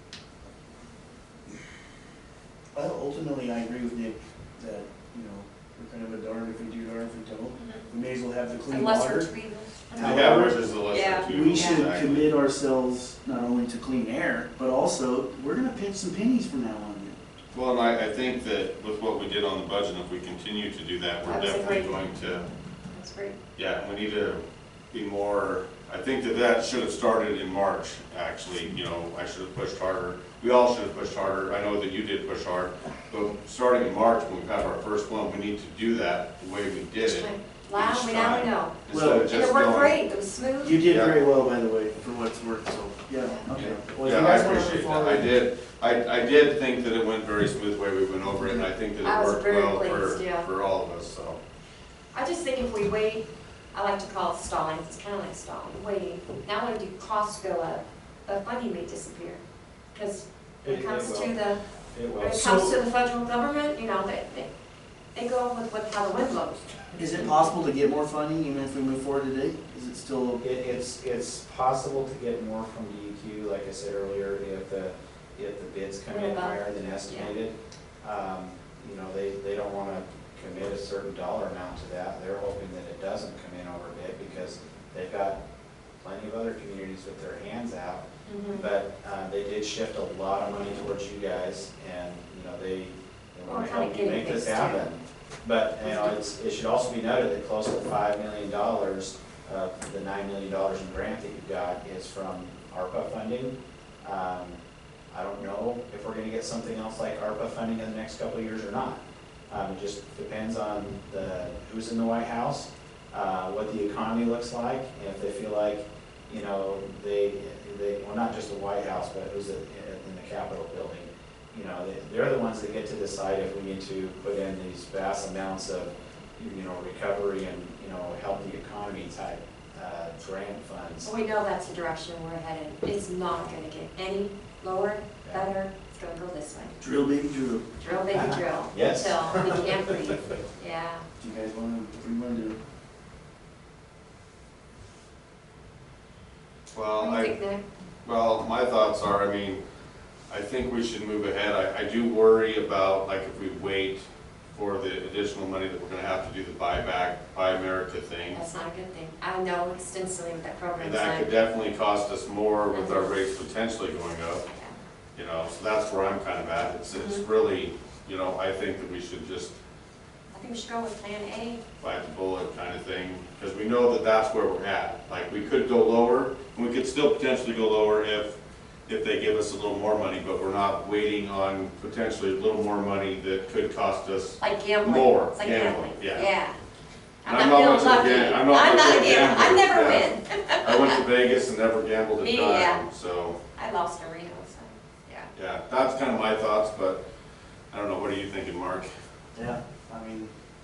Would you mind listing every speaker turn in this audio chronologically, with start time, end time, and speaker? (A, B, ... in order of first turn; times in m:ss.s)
0:02.8-0:09.3 A
0:07.6-0:07.9 B
0:08.7-0:11.9 B
0:10.0-0:10.7 A
0:10.0-0:12.3 C
0:11.3-0:17.2 A
0:17.5-0:22.5 C
0:21.2-0:22.0 B
0:22.9-0:23.4 B
0:23.6-0:40.0 C
0:37.0-0:40.8 B
0:38.9-0:39.3 A
0:40.6-0:45.3 A
0:40.8-0:41.2 C
0:43.6-0:51.4 C
0:49.0-0:50.5 B
0:52.1-0:59.4 B
0:59.9-1:01.6 B
1:00.6-1:01.4 D
1:01.9-1:02.8 D
1:02.2-1:04.5 B
1:05.1-1:06.8 B
1:07.0-1:10.4 A
1:07.1-1:07.5 D
1:10.4-1:25.4 D
1:16.1-1:17.3 B
1:26.0-1:44.6 D
1:28.3-1:28.7 B
1:33.5-1:34.9 B
1:35.8-1:36.1 B
1:45.1-2:11.1 D
2:11.0-2:16.8 B
2:16.8-2:17.7 A
2:17.8-2:21.0 B
2:18.1-2:19.9 D
2:21.2-2:22.6 A
2:26.7-2:27.4 C
2:27.0-2:27.6 B
2:28.0-2:29.6 C
2:30.3-2:38.4 C
2:38.3-2:41.3 B
2:40.8-2:44.4 C
2:42.7-2:43.1 B
2:44.5-2:44.8 B
2:45.2-2:49.6 C
2:46.9-2:47.2 B
2:50.3-2:51.6 B
2:51.8-2:58.4 C
2:58.9-3:06.3 C
3:04.4-3:06.6 B
3:07.2-3:11.0 B
3:07.2-3:10.1 C
3:10.6-3:13.4 C
3:12.2-3:12.8 B
3:13.6-3:15.3 B
3:15.4-3:17.0 C
3:17.7-3:18.9 C
3:19.4-3:20.3 A